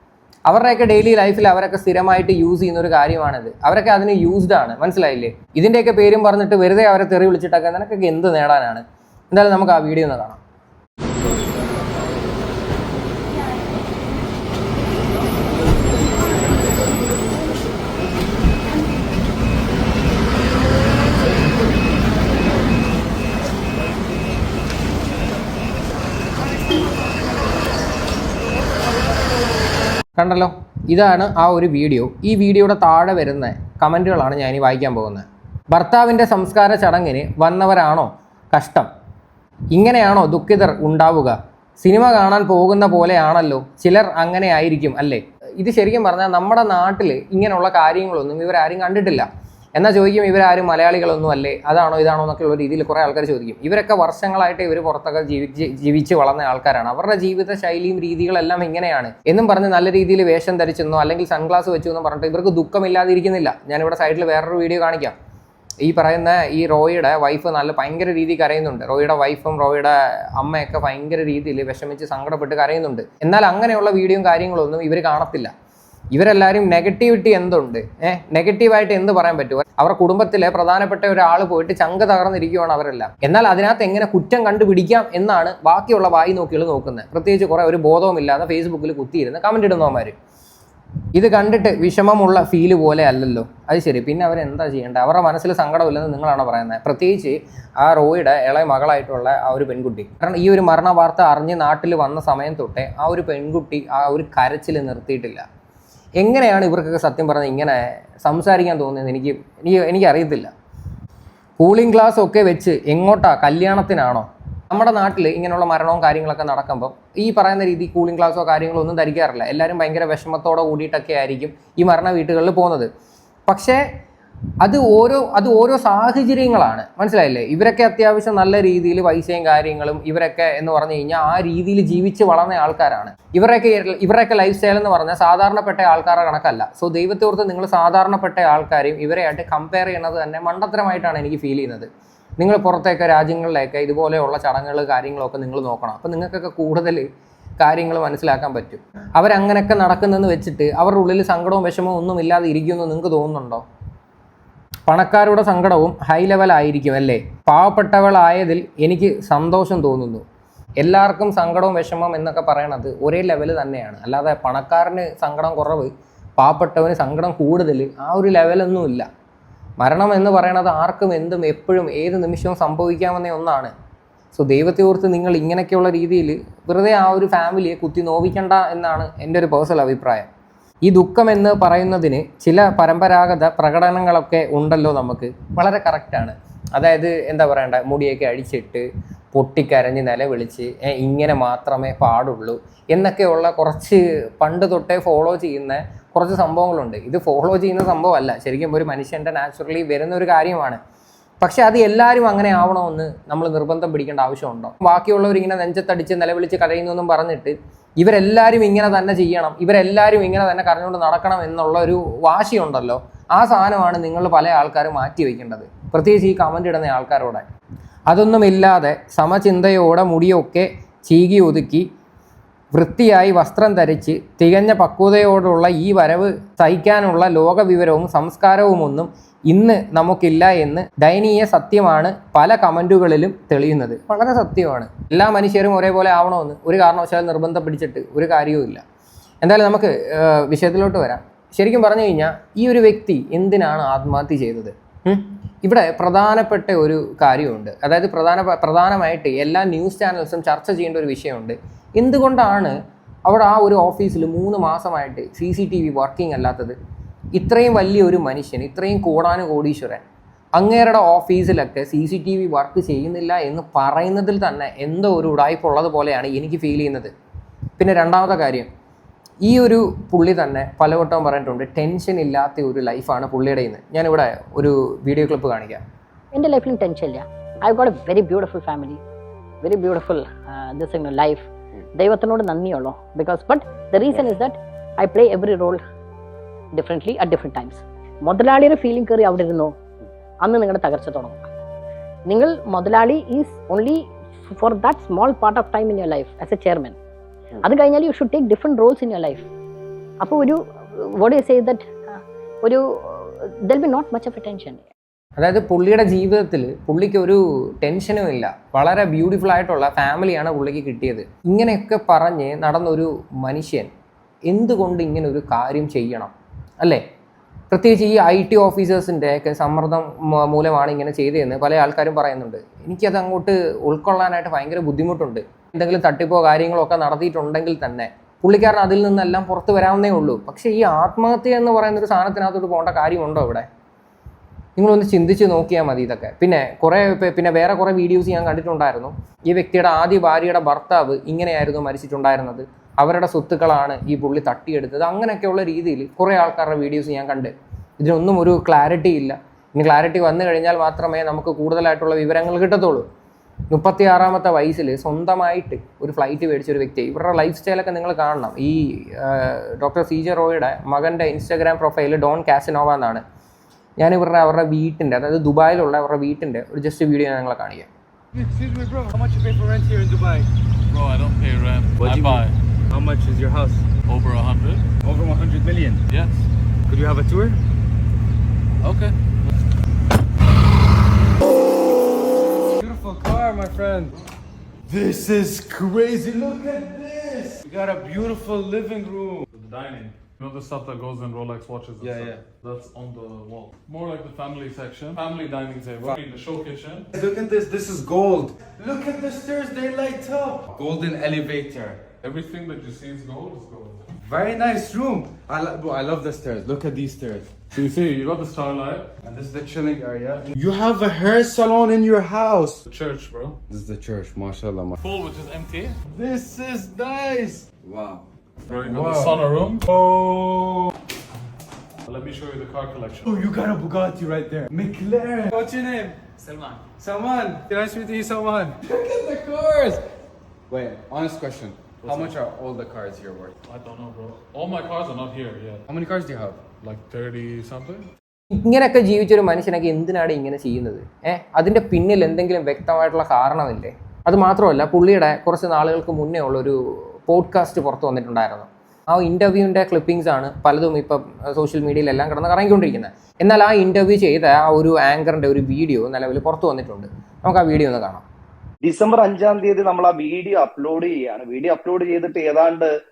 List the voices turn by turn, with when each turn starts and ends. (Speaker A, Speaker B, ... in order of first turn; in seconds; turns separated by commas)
Speaker A: 0.5-10.4, Speaker A: 30.2-38.9, Speaker A: 39.7-65.2, Speaker A: 65.8-75.5, Speaker A: 76.1-90.1, Speaker A: 91.1-105.4, Speaker A: 106.2-110.5, Speaker A: 111.6-122.9, Speaker A: 123.5-123.8, Speaker A: 124.6-141.9, Speaker A: 142.4-147.1, Speaker A: 147.6-153.7, Speaker A: 154.9-160.2, Speaker A: 160.8-169.1, Speaker A: 169.8-173.7, Speaker A: 174.3-180.2, Speaker A: 180.8-200.8, Speaker A: 201.4-217.4, Speaker A: 218.1-221.9, Speaker A: 222.7-238.8, Speaker A: 239.4-256.8, Speaker A: 257.4-260.0, Speaker A: 260.6-267.1, Speaker A: 267.8-268.7, Speaker A: 269.4-275.8, Speaker B: 276.3-279.0, Speaker B: 279.6-285.8, Speaker B: 286.7-289.8, Speaker B: 290.4-291.5, Speaker B: 292.2-297.0, Speaker B: 297.6-299.5, Speaker B: 300.2-304.9, Speaker A: 305.4-313.9, Speaker A: 314.5-317.0, Speaker A: 317.7-333.7, Speaker A: 334.8-353.1, Speaker A: 353.7-363.2, Speaker A: 364.0-367.9, Speaker C: 368.3-370.5, Speaker D: 370.9-372.6, Speaker C: 372.0-373.9, Speaker D: 374.0-374.9, Speaker C: 375.0-376.0, Speaker D: 376.1-376.4, Speaker C: 376.9-377.6, Speaker D: 378.8-379.1, Speaker C: 382.8-384.1, Speaker C: 384.9-389.5, Speaker D: 389.5-397.1, Speaker C: 392.0-392.4, Speaker C: 397.1-402.0, Speaker D: 402.2-404.0, Speaker C: 404.2-407.6, Speaker D: 407.7-409.1, Speaker C: 409.2-412.8, Speaker D: 412.9-413.6, Speaker C: 413.7-415.0, Speaker D: 415.0-416.0, Speaker C: 416.1-420.9, Speaker D: 418.6-419.9, Speaker D: 422.1-423.4, Speaker C: 423.2-430.0, Speaker C: 430.7-433.5, Speaker D: 432.0-432.4, Speaker D: 433.7-435.9, Speaker C: 435.9-436.6, Speaker D: 436.8-438.1, Speaker A: 438.5-458.2, Speaker E: 458.8-462.9